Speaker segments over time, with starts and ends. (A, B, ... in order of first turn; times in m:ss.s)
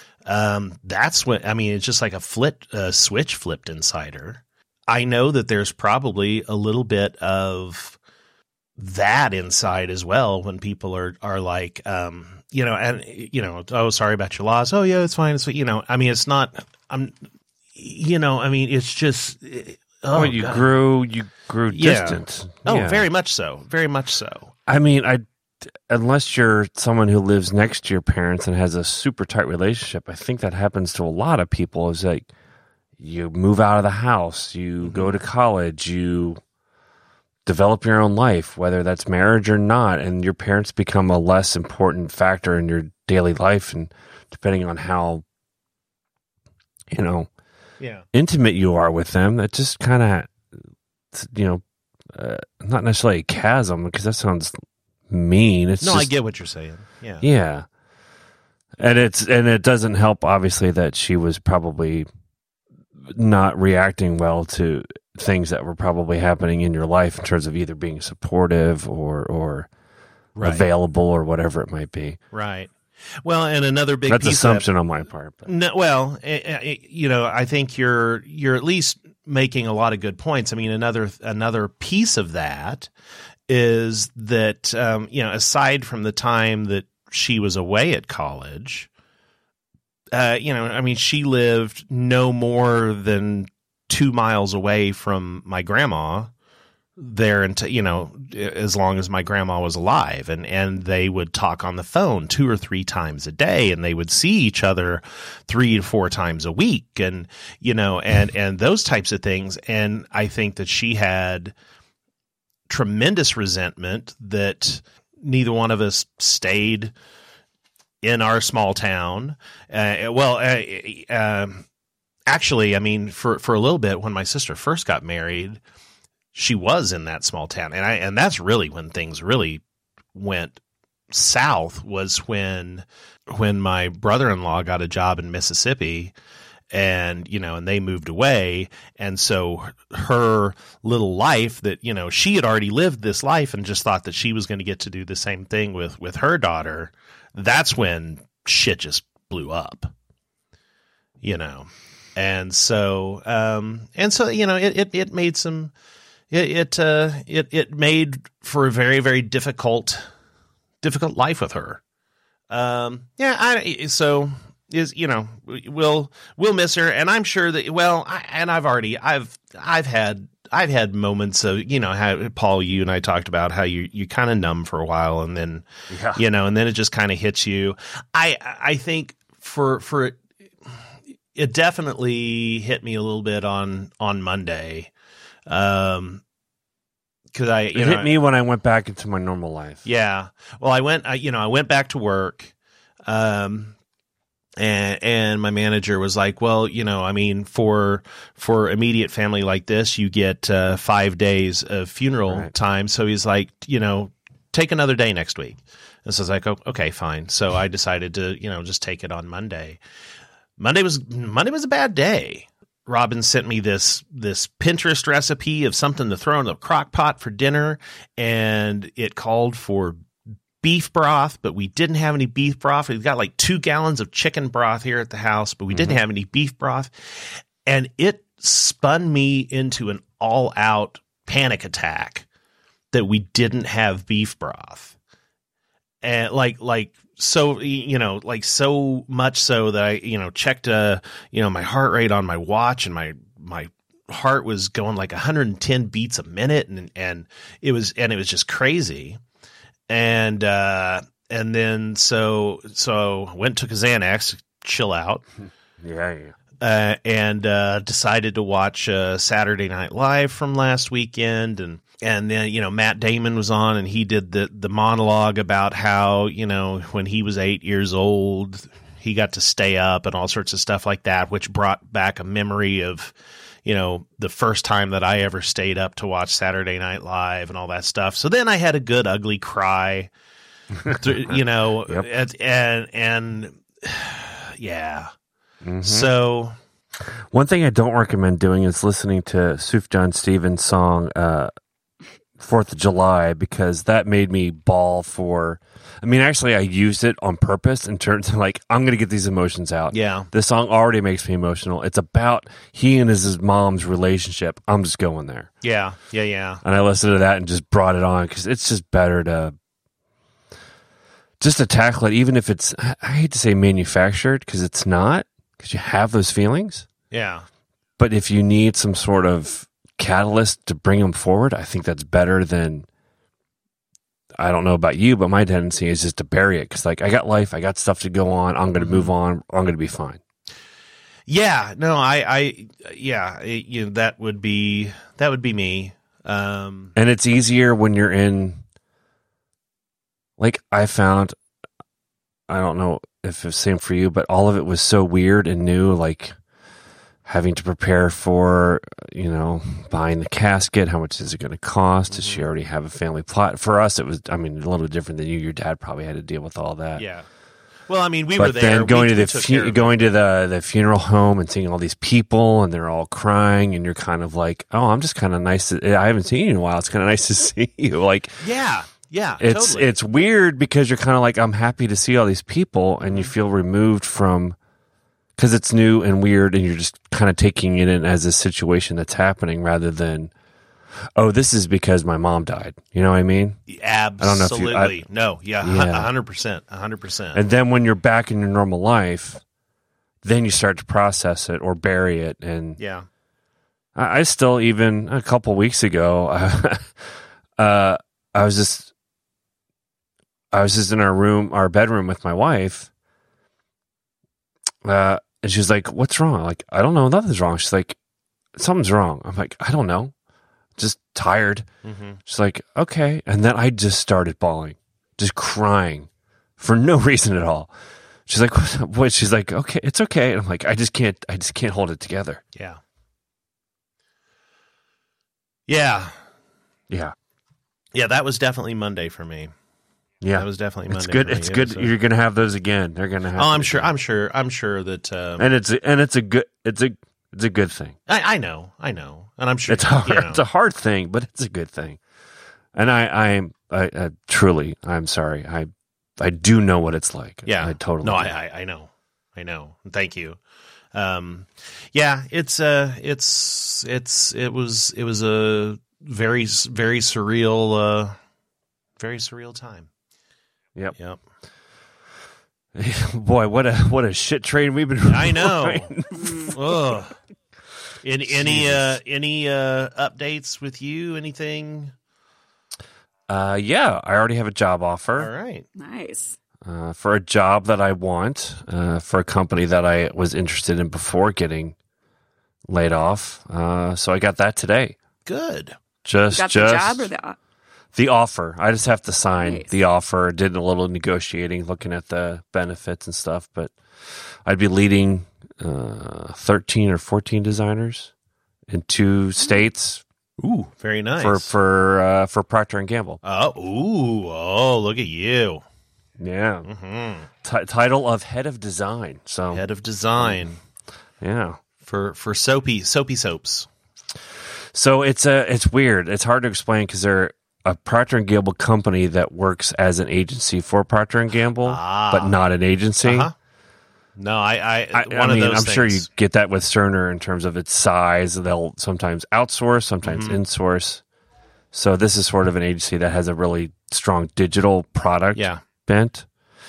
0:00.3-0:08.0 A
0:08.8-0:17.2 A
0:17.8-0:20.7 A
0:20.1-0:23.1 B
0:21.7-0:24.5 A
0:24.7-0:32.3 B
0:33.0-0:36.4 B
0:34.8-0:35.1 A
0:37.5-0:45.2 B
0:46.9-0:47.3 B
0:47.8-0:48.1 A
0:48.1-0:50.4 B
0:51.1-0:54.6 B
0:55.1-0:56.1 B
0:55.8-0:57.3 A
0:57.2-0:57.7 B
0:58.8-1:02.1 B
1:03.0-1:09.7 B
1:10.4-1:10.7 A
1:10.4-1:12.2 B
1:12.3-1:12.7 A
1:13.2-1:14.7 A
1:14.1-1:15.5 B
1:15.4-1:22.9 A
1:23.5-1:28.9 A
1:30.1-1:36.3 A
1:37.0-1:51.5 A
1:52.7-1:56.9 A
1:58.0-2:01.6 A
2:02.3-2:05.6 A
2:06.3-2:09.6 A
2:10.1-2:16.1 A
2:16.7-2:29.9 A
2:31.2-2:35.7 A
2:36.3-2:40.0 A
2:40.8-2:41.8 A
2:42.5-3:00.2 A
2:55.9-2:56.2 B
3:01.4-3:04.9 A
3:05.5-3:06.2 A
3:07.3-3:08.1 A
3:07.7-3:09.8 B
3:09.8-3:12.5 A
3:13.1-3:13.8 A
3:14.6-3:29.8 A
3:30.6-3:40.0 A
3:40.6-3:52.3 A
3:45.7-3:46.0 B
3:52.9-3:55.0 A
3:56.0-4:09.2 A
4:09.9-4:15.2 A
4:15.8-4:16.4 B
4:16.6-4:33.1 A
4:33.6-4:40.1 A
4:40.9-4:45.1 A
4:45.6-4:46.1 B
4:45.8-4:46.6 A
4:47.3-4:51.5 B
4:52.4-5:05.5 B
4:59.9-5:00.3 A
5:05.6-5:06.6 A
5:06.6-5:09.5 B
5:11.4-5:16.9 B
5:17.1-5:17.5 A
5:18.0-5:22.9 B
5:24.4-5:30.2 B
5:28.8-5:29.1 A
5:31.3-5:36.9 A
5:37.0-5:38.6 B
5:40.4-5:41.4 B
5:42.5-5:46.4 B
5:47.2-5:57.0 B
5:52.1-5:52.4 A
5:57.0-5:57.3 A
5:57.9-6:00.1 A
5:58.4-6:08.4 B
6:08.4-6:09.9 A
6:09.4-6:14.6 B
6:13.1-6:13.3 A
6:15.4-6:20.3 B
6:21.2-6:23.6 B
6:23.7-6:27.4 A
6:24.2-6:25.0 B
6:25.6-6:26.1 B
6:27.3-6:29.4 B
6:30.2-6:32.8 B
6:32.8-6:33.1 A
6:34.0-6:38.9 B
6:40.5-6:42.9 B
6:44.8-6:48.0 B
6:48.6-6:50.1 B
6:50.8-6:51.7 B
6:51.8-6:52.2 A
6:52.3-6:56.1 B
6:56.6-6:57.7 B
6:58.3-7:02.4 B
7:02.6-7:02.8 A
7:05.7-7:06.1 A
7:07.9-7:09.5 A
7:10.2-7:13.9 B
7:10.3-7:11.9 A
7:13.4-7:15.5 A
7:15.4-7:18.0 B
7:18.1-7:20.4 A
7:19.7-7:22.0 B
7:22.8-7:28.3 B
7:27.4-7:30.4 A
7:30.9-7:38.2 A
7:39.0-7:39.9 A
7:42.8-7:46.8 B
7:45.1-7:47.2 A
7:46.1-7:46.6 C
7:48.0-7:51.9 A
7:48.3-7:49.0 B
7:53.3-7:55.3 B
7:55.2-7:55.7 A
7:55.8-7:56.4 C
7:56.6-8:01.8 B
8:02.7-8:05.0 B
8:05.2-8:05.8 A
8:06.0-8:07.1 B
8:06.3-8:07.4 C
8:08.0-8:13.7 B
8:09.4-8:09.7 C
8:14.4-8:18.1 B
8:18.7-8:20.0 B
8:20.4-8:21.5 A
8:21.2-8:23.2 B
8:23.2-8:25.6 A
8:26.2-8:26.7 B
8:26.7-8:27.3 A
8:27.4-8:29.6 B
8:29.5-8:30.6 A
8:30.2-8:30.4 B
8:31.2-8:31.6 B
8:31.8-8:33.7 A
8:34.7-8:43.3 B
8:41.6-8:42.4 A
8:43.0-8:43.3 A
8:44.2-8:46.0 A
8:44.9-8:51.0 B
8:50.0-8:50.4 A
8:51.7-8:56.3 B
8:55.4-8:55.6 A